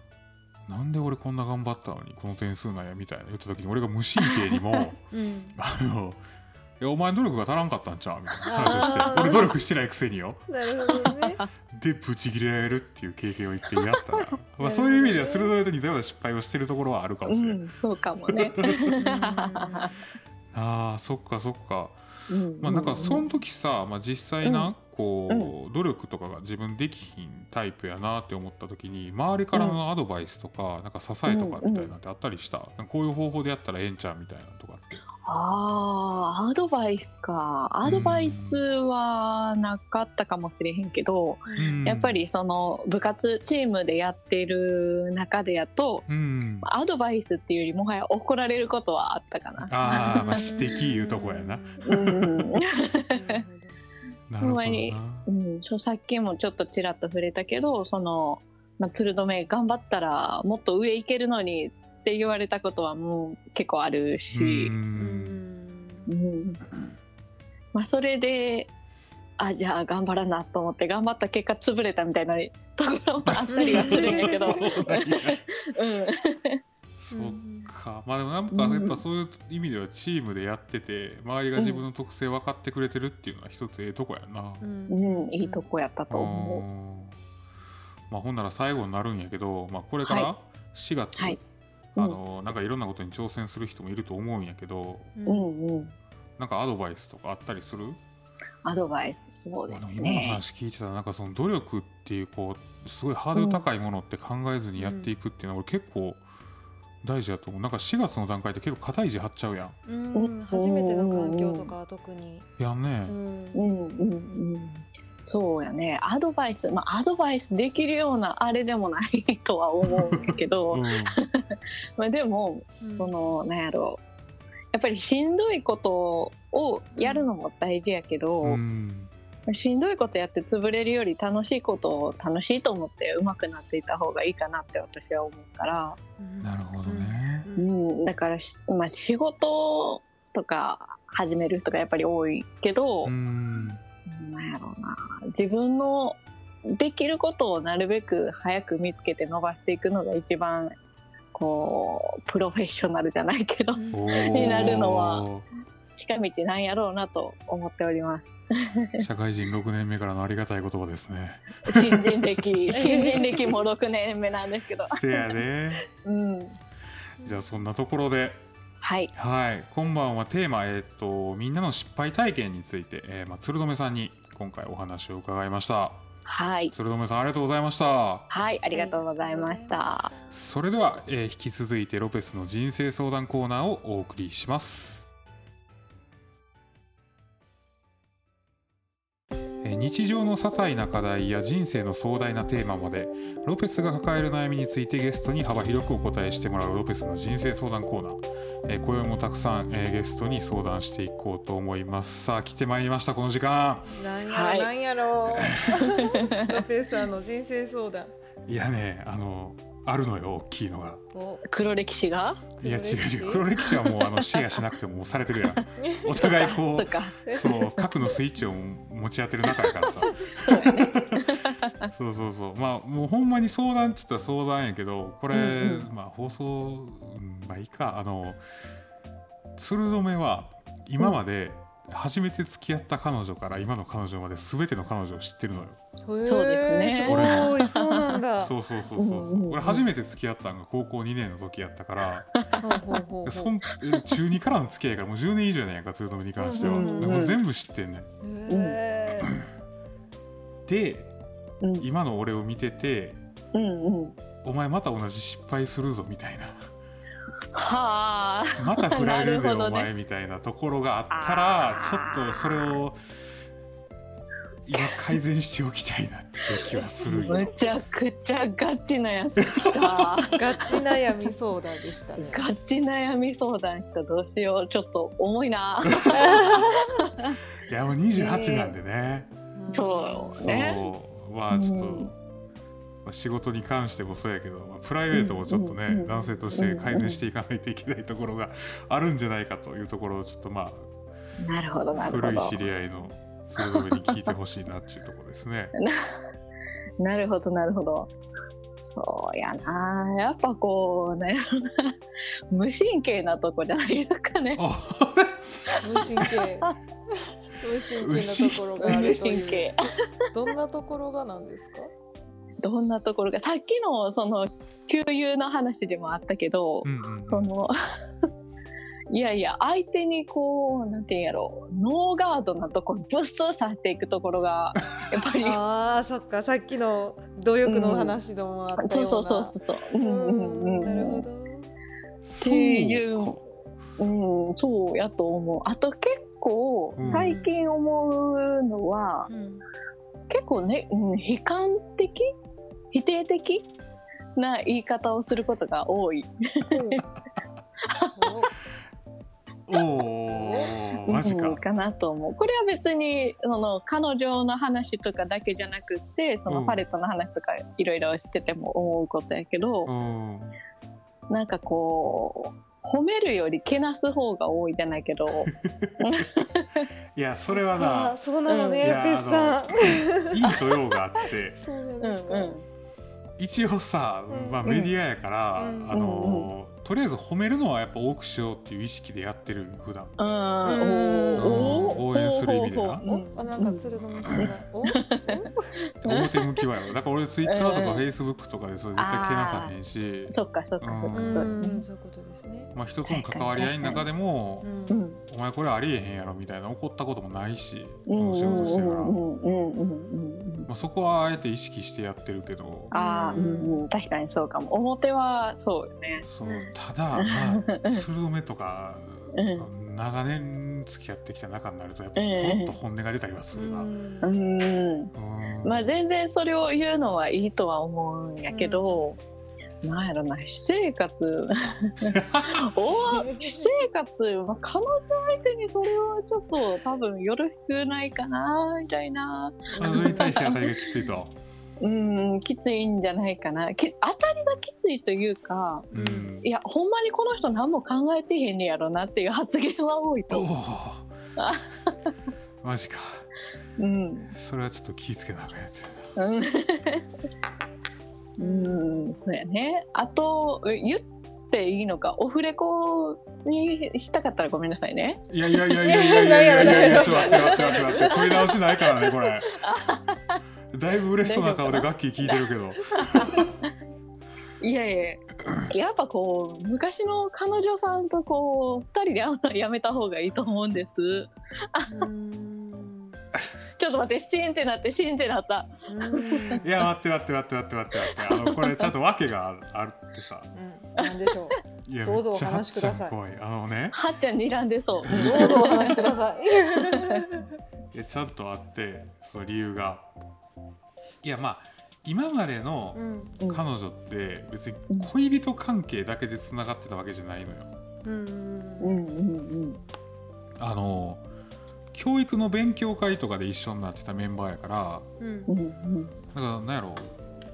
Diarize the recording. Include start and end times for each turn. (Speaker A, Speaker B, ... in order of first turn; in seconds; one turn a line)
Speaker A: 0.7-5.0
Speaker B: 4.3-4.8
Speaker C: 5.1-5.6
Speaker A: 5.5-6.2
Speaker A: 6.8-10.4
Speaker C: 8.4-9.6
Speaker B: 8.6-9.3
Speaker C: 10.5-11.4
Speaker B: 11.0-11.4
Speaker A: 11.7-17.6
Speaker C: 14.6-15.5
Speaker B: 17.3-19.9
Speaker A: 18.3-18.9
Speaker C: 18.9-20.0
Speaker A: 20.5-22.0
Speaker B: 22.3-23.2
Speaker A: 22.6-35.0
Speaker B: 24.4-24.7
Speaker B: 29.5-29.8
Speaker B: 31.3-31.9
Speaker B: 35.2-46.1
Speaker A: 37.8-38.6
Speaker C: 41.5-41.8
Speaker A: 41.6-42.2
Speaker A: 46.1-46.7
Speaker B: 46.6-50.6
Speaker A: 49.6-52.5
Speaker C: 49.8-52.1
Speaker B: 51.8-53.4
Speaker C: 53.1-53.8
Speaker A: 54.3-55.2
Speaker B: 54.4-64.7
Speaker A: 64.3-65.4
Speaker C: 65.0-66.1
Speaker B: 66.1-66.7
Speaker B: 67.7-68.7
Speaker B: 69.4-76.6
Speaker A: 73.2-75.4
Speaker C: 73.5-74.7
Speaker A: 77.0-84.6
Speaker C: 77.1-77.7
Speaker B: 78.5-79.0
Speaker B: 81.5-81.8
Speaker C: 84.6-85.7
Speaker B: 84.9-86.6
Speaker A: 86.1-87.2
Speaker A: 88.1-91.4
Speaker B: 90.0-90.3
Speaker A: 92.0-95.1
Speaker C: 95.2-95.5
Speaker B: 95.2-95.9
Speaker A: 96.4-98.0
Speaker B: 98.6-100.4
Speaker A: 99.7-106.2
Speaker B: 103.3-103.6
Speaker C: 104.8-105.1
Speaker A: 107.0-109.8
Speaker C: 109.8-112.5
Speaker B: 110.1-111.7
Speaker A: 112.6-113.2
Speaker C: 113.0-113.7
Speaker B: 113.5-124.0
Speaker A: 119.8-121.2
Speaker C: 120.1-120.4
Speaker C: 122.8-123.2
Speaker B: 124.7-128.6
Speaker C: 127.0-127.3
Speaker A: 128.4-129.1
Speaker B: 129.5-136.0
Speaker C: 136.2-137.7
Speaker A: 136.4-137.5
Speaker B: 137.6-143.1
Speaker A: 143.0-143.8
Speaker B: 144.1-150.8
Speaker B: 151.3-155.3
Speaker C: 153.8-154.8
Speaker A: 153.9-155.4
Speaker B: 156.0-159.0
Speaker A: 159.0-162.2
Speaker B: 161.6-165.3
Speaker C: 162.7-163.6
Speaker A: 164.9-165.8
Speaker B: 166.0-166.6
Speaker A: 167.2-168.4
Speaker C: 167.2-167.5
Speaker B: 168.8-169.1
Speaker A: 169.1-176.0
Speaker B: 176.2-176.7
Speaker A: 176.7-178.3
Speaker B: 178.3-180.1
Speaker C: 178.7-180.4
Speaker A: 180.3-185.1
Speaker A: 189.6-203.9
Speaker C: 203.9-208.1
Speaker B: 204.3-204.7
Speaker A: 205.3-205.8
Speaker B: 205.7-206.6
Speaker A: 208.5-211.0
Speaker C: 211.1-211.4
Speaker B: 211.4-212.4
Speaker C: 212.6-213.6
Speaker A: 212.6-221.3
Speaker B: 214.2-214.4
Speaker C: 215.8-216.1
Speaker B: 216.1-217.2
Speaker C: 217.3-217.7
Speaker B: 220.3-221.9
Speaker A: 221.9-228.4
Speaker B: 225.3-225.9
Speaker A: 229.6-235.8
Speaker C: 236.1-238.5
Speaker B: 236.2-238.1
Speaker A: 237.0-237.6
Speaker A: 238.4-242.3
Speaker B: 239.0-239.8
Speaker B: 242.3-242.6
Speaker C: 242.6-243.6
Speaker A: 243.2-248.1
Speaker C: 246.4-247.3
Speaker B: 246.6-247.4
Speaker C: 248.2-249.4
Speaker B: 248.5-248.8
Speaker A: 250.7-251.1
Speaker A: 251.8-253.2
Speaker B: 253.5-254.2
Speaker A: 254.4-256.6
Speaker B: 257.5-259.9
Speaker A: 258.6-263.0
Speaker B: 261.1-262.6
Speaker A: 264.6-267.5
Speaker B: 264.8-265.0
Speaker C: 267.1-267.5
Speaker B: 267.1-270.7
Speaker A: 269.6-270.0
Speaker C: 270.3-272.5
Speaker B: 272.2-277.4
Speaker C: 276.1-277.0
Speaker A: 277.7-279.3
Speaker B: 278.1-278.7
Speaker C: 279.6-280.4
Speaker B: 279.7-280.9
Speaker A: 280.4-282.1
Speaker B: 281.5-282.1
Speaker A: 283.0-290.9
Speaker B: 285.1-287.2
Speaker C: 286.1-286.5
Speaker B: 291.4-292.6
Speaker A: 291.9-295.7
Speaker B: 293.6-294.2
Speaker B: 295.8-296.2
Speaker B: 297.0-298.1
Speaker B: 298.9-302.0
Speaker B: 302.5-304.6
Speaker A: 304.6-306.3
Speaker C: 305.8-306.8
Speaker C: 307.6-309.8
Speaker A: 308.0-309.1
Speaker B: 308.8-309.9
Speaker C: 310.3-311.9
Speaker B: 312.6-317.7
Speaker A: 316.8-317.5
Speaker B: 319.1-325.6
Speaker C: 325.4-331.7
Speaker B: 327.6-328.2
Speaker B: 328.8-331.2
Speaker A: 332.2-333.4
Speaker B: 332.4-333.4
Speaker B: 334.0-339.3
Speaker A: 337.0-337.4
Speaker C: 337.0-337.5
Speaker C: 339.3-339.6
Speaker B: 340.3-342.3
Speaker B: 342.9-343.7
Speaker B: 344.4-347.0
Speaker C: 346.7-347.0
Speaker C: 348.1-348.5
Speaker A: 349.7-351.6
Speaker C: 350.3-350.8
Speaker B: 351.1-359.9
Speaker A: 356.5-356.8
Speaker A: 359.9-360.5
Speaker B: 361.3-366.9
Speaker A: 367.1-368.2
Speaker C: 367.5-370.5
Speaker B: 368.4-368.9
Speaker A: 368.8-371.6
Speaker C: 371.6-372.6
Speaker B: 372.0-372.6
Speaker A: 373.4-380.1
Speaker C: 374.3-374.9
Speaker C: 375.6-376.0
Speaker B: 375.9-376.5
Speaker B: 380.2-386.6
Speaker C: 380.6-382.1
Speaker A: 381.4-383.0
Speaker C: 383.1-385.6
Speaker A: 386.0-391.6
Speaker B: 387.4-388.1
Speaker B: 388.9-389.7
Speaker B: 390.3-391.9
Speaker C: 391.1-392.7
Speaker A: 392.7-394.7
Speaker B: 393.1-394.1
Speaker C: 394.6-395.0
Speaker B: 394.9-395.2
Speaker A: 395.3-399.1
Speaker B: 398.1-400.7
Speaker C: 398.5-398.8
Speaker A: 400.7-402.9
Speaker C: 402.9-403.9
Speaker B: 402.9-406.2
Speaker A: 406.2-413.9
Speaker C: 406.4-406.7
Speaker B: 407.1-408.1
Speaker B: 409.3-409.7
Speaker B: 412.1-412.8
Speaker C: 413.5-414.3
Speaker B: 414.2-415.1
Speaker A: 415.1-415.9
Speaker B: 415.6-419.2
Speaker C: 418.5-419.1
Speaker B: 419.8-430.6
Speaker A: 422.0-423.1
Speaker C: 422.8-423.8
Speaker C: 429.7-430.3
Speaker A: 429.8-431.3
Speaker B: 431.8-435.9
Speaker C: 435.9-436.3
Speaker A: 435.9-436.5
Speaker B: 436.4-440.5
Speaker A: 440.3-441.1
Speaker B: 441.4-442.1
Speaker A: 442.6-443.2
Speaker B: 443.8-444.3
Speaker A: 444.3-446.1
Speaker B: 446.1-447.1
Speaker C: 448.4-449.1
Speaker B: 448.4-455.2
Speaker A: 455.3-459.6
Speaker C: 455.8-458.5
Speaker B: 456.6-460.4
Speaker A: 460.7-463.5
Speaker B: 461.2-462.4
Speaker B: 462.9-463.4
Speaker B: 464.6-472.1
Speaker C: 471.9-473.2
Speaker B: 473.8-476.6
Speaker C: 475.9-476.7
Speaker A: 476.6-480.5
Speaker B: 478.1-478.9
Speaker C: 480.5-483.1
Speaker A: 481.8-483.9
Speaker B: 483.9-486.1
Speaker A: 485.1-485.6
Speaker C: 485.1-487.5
Speaker B: 486.7-487.3
Speaker A: 487.9-490.1
Speaker A: 491.2-497.7
Speaker C: 492.9-493.4
Speaker C: 498.0-499.0
Speaker B: 498.8-499.8
Speaker A: 500.6-501.2
Speaker A: 501.9-505.1
Speaker C: 505.2-505.5
Speaker B: 505.5-506.1
Speaker A: 506.3-507.2